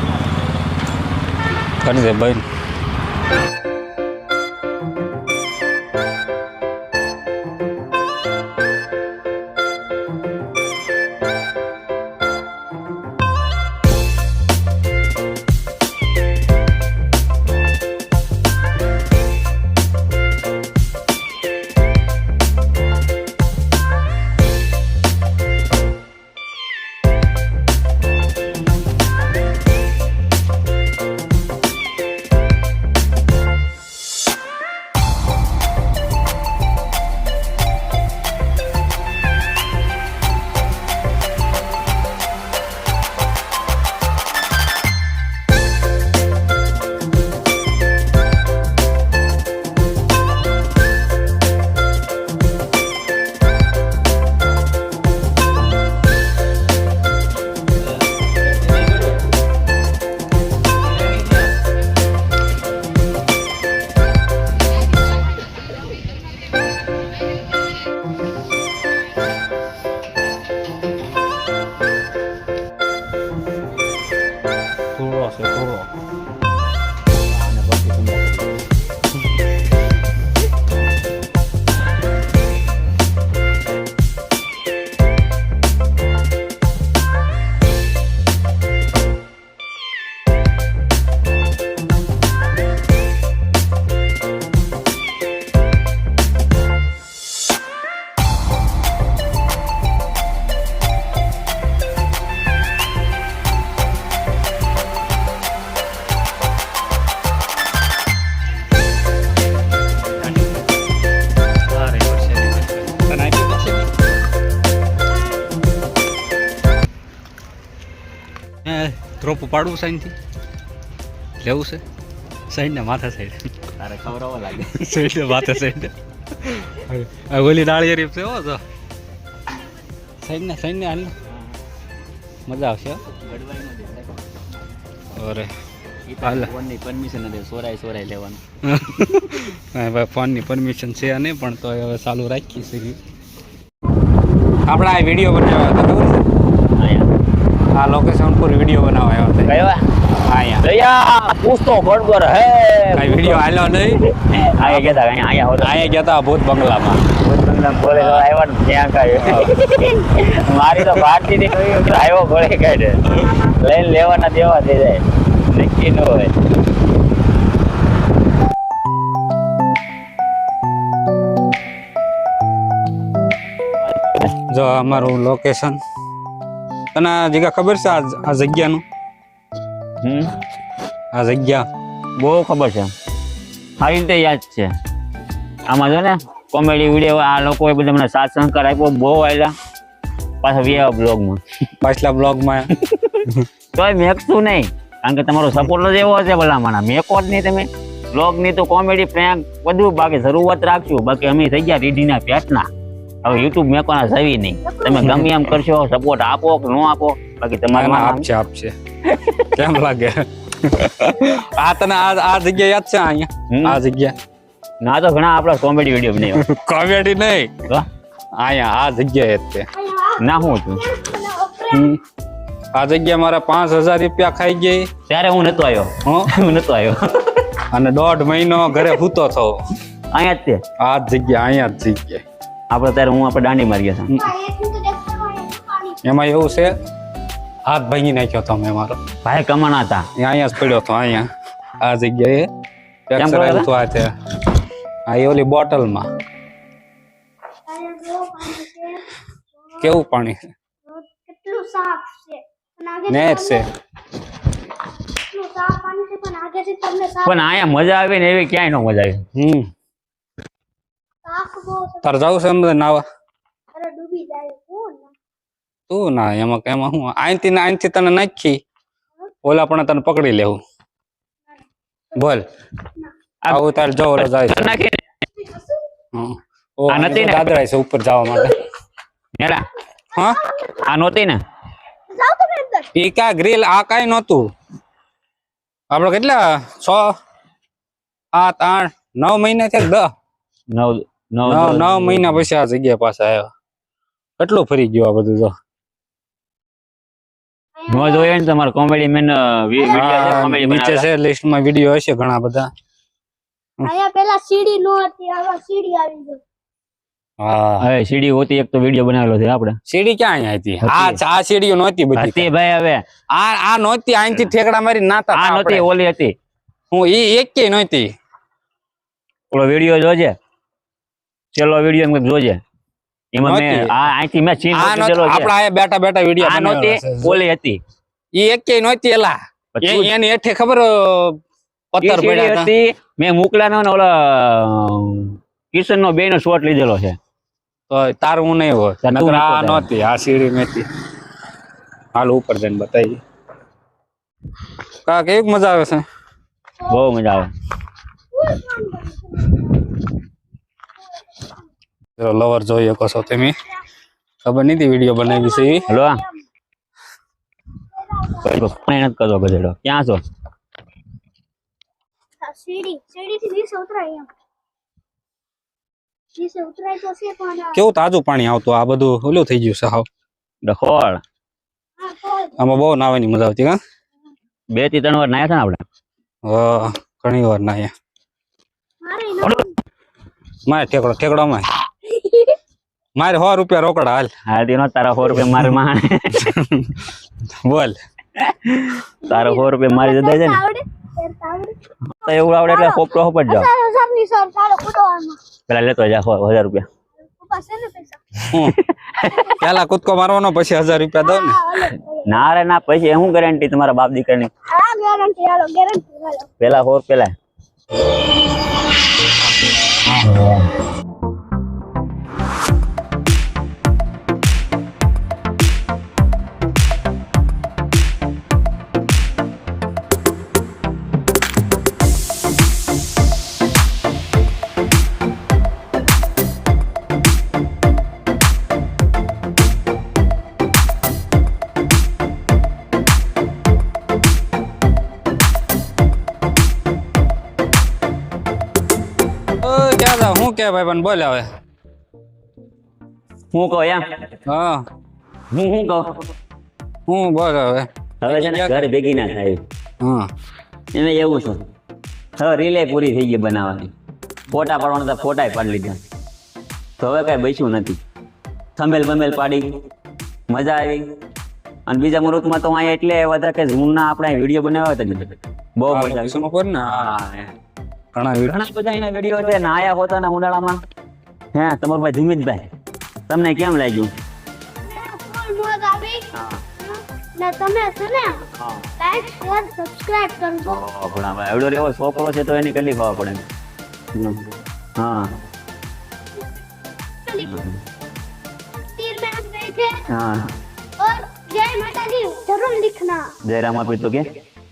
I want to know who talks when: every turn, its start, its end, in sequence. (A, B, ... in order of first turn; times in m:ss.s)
0:01.8-0:02.4 A
1:15.0-1:15.9 A
1:17.3-1:18.6 B
1:51.7-1:53.9 A
1:58.6-2:00.1 A
2:01.4-2:01.8 A
2:02.5-2:03.4 A
2:03.8-2:04.8 B
2:04.7-2:08.6 A
2:10.2-2:11.1 A
2:12.5-2:13.0 A
2:13.2-2:14.1 B
2:15.2-2:15.5 A
2:16.1-2:18.4 B
2:16.2-2:16.5 A
2:18.7-2:23.0 A
2:24.7-2:26.3 A
2:26.7-2:27.1 B
2:27.7-2:29.5 A
2:29.5-2:29.8 B
2:30.3-2:30.6 A
2:30.6-2:33.4 B
2:33.0-2:34.0 A
2:34.4-2:35.9 B
2:34.6-2:35.0 A
2:35.6-2:37.0 A
2:37.2-2:46.3 B
2:37.9-2:38.2 A
2:39.2-2:39.5 A
2:54.0-2:54.3 B
2:54.5-2:55.8 A
2:56.9-2:58.8 A
3:00.0-3:00.3 B
3:01.1-3:01.7 A
3:02.2-3:02.9 B
3:03.8-3:04.7 B
3:05.7-3:09.5 B
3:10.4-3:11.4 B
3:11.8-3:12.7 A
3:13.7-3:22.7 B
3:23.2-3:28.3 B
3:24.6-3:25.1 C
3:27.7-3:28.7 A
3:29.5-3:34.2 A
3:33.5-3:33.8 B
3:34.8-3:36.4 B
3:36.3-3:37.5 A
3:38.4-3:39.7 A
3:39.8-3:42.0 C
3:40.2-3:40.8 B
3:41.7-3:42.0 A
3:42.8-3:44.9 A
3:45.1-3:47.4 B
3:46.0-3:46.3 A
3:47.7-3:49.6 A
3:50.1-3:50.6 B
3:50.8-3:52.2 A
3:52.7-3:54.1 B
3:54.2-3:56.0 C
3:56.0-3:56.8 A
3:57.7-3:59.0 A
3:59.2-4:00.1 B
4:00.2-4:01.3 A
4:01.8-4:02.5 A
4:03.1-4:04.1 A
4:03.2-4:03.7 B
4:05.1-4:06.1 A
4:07.7-4:09.0 C
4:09.8-4:10.4 A
4:10.8-4:13.7 C
4:13.1-4:13.6 A
4:15.3-4:17.5 C
4:17.2-4:19.2 B
4:19.4-4:19.7 A
4:21.2-4:22.3 C
4:22.0-4:23.0 A
4:23.7-4:25.1 C
4:25.9-4:28.6 A
4:29.4-4:30.6 A
4:32.2-4:32.4 A
4:33.5-4:34.8 A
4:34.2-4:35.0 B
4:35.4-4:35.7 C
4:36.1-4:38.6 A
4:36.9-4:37.5 B
4:39.4-4:39.7 B
4:40.2-4:40.4 A
4:40.2-4:40.8 C
4:40.8-4:41.4 B
4:42.1-4:42.9 C
4:43.0-4:44.5 A
4:45.9-4:47.1 A
4:48.4-4:50.1 A
4:50.7-4:52.4 B
4:51.5-4:53.5 A
4:54.4-4:55.5 A
4:57.8-4:58.3 C
4:57.9-5:01.1 B
4:59.8-5:00.1 C
4:59.9-5:02.7 A
5:03.8-5:06.4 C
5:07.4-5:07.9 A
5:07.8-5:09.8 B
5:09.9-5:12.5 A
5:10.8-5:11.2 B
5:12.2-5:13.0 B
5:13.3-5:15.9 A
5:15.3-5:16.3 B
5:16.9-5:18.1 A
5:19.5-5:20.3 B
5:21.5-5:22.6 B
5:23.3-5:25.5 B
5:23.4-5:24.1 A
5:24.7-5:27.4 A
5:26.4-5:27.8 B
5:28.4-5:31.4 A
5:29.8-5:30.1 B
5:31.9-5:32.7 A
5:32.0-5:37.2 B
5:37.9-5:40.9 A
5:39.0-5:39.9 B
5:42.2-5:43.2 A
5:45.0-5:46.0 A
5:46.9-5:47.5 B
5:48.3-5:50.1 C
5:52.2-5:53.5 A
5:54.4-5:55.9 A
5:55.2-5:56.4 C
5:55.9-5:56.2 B
5:58.1-5:58.5 C
5:58.4-6:00.2 B
6:02.4-6:04.3 C
6:06.4-6:07.8 C
6:07.7-6:10.1 A
6:10.6-6:11.2 B
6:12.0-6:12.5 C
6:12.6-6:13.8 A
6:14.7-6:15.8 B
6:16.4-6:17.9 A
6:19.0-6:19.7 C
6:20.7-6:21.7 A
6:22.2-6:22.6 C
6:23.2-6:24.3 A
6:24.5-6:26.5 B
6:26.4-6:27.1 A
6:27.6-6:28.0 A
6:28.4-6:30.6 B
6:29.3-6:31.8 C
6:32.2-6:33.7 B
6:32.7-6:35.4 C
6:35.7-6:36.8 B
6:37.3-6:38.2 C
6:38.5-6:39.6 B
6:39.6-6:41.6 A
6:41.2-6:42.4 C
6:42.3-6:44.5 B
6:44.7-6:46.5 C
6:46.6-6:47.3 B
6:50.2-6:50.6 B
7:19.6-7:21.5 A
7:23.5-7:24.2 B
7:24.5-7:24.8 A
7:25.5-7:26.1 B
7:27.1-7:28.8 A
7:28.2-7:29.6 B
7:30.0-7:30.3 A
7:30.9-7:31.6 B
7:32.4-7:33.9 B
7:34.5-7:36.0 B
7:37.0-7:38.0 B
7:38.8-7:39.7 B
7:40.5-7:41.0 B
7:41.9-7:47.5 B
7:45.9-7:47.2 A
7:48.1-7:48.6 A
7:48.4-7:50.8 B
7:51.5-7:52.7 B
7:53.3-7:54.1 B
7:54.8-7:58.4 C
7:56.3-7:56.6 B
7:58.6-7:58.9 B
7:59.0-8:00.8 C
8:00.7-8:03.4 B
8:04.1-8:05.3 B
8:07.4-8:07.8 B
8:09.0-8:10.0 C
8:10.1-8:10.5 B
8:11.0-8:13.3 C
8:13.5-8:14.3 B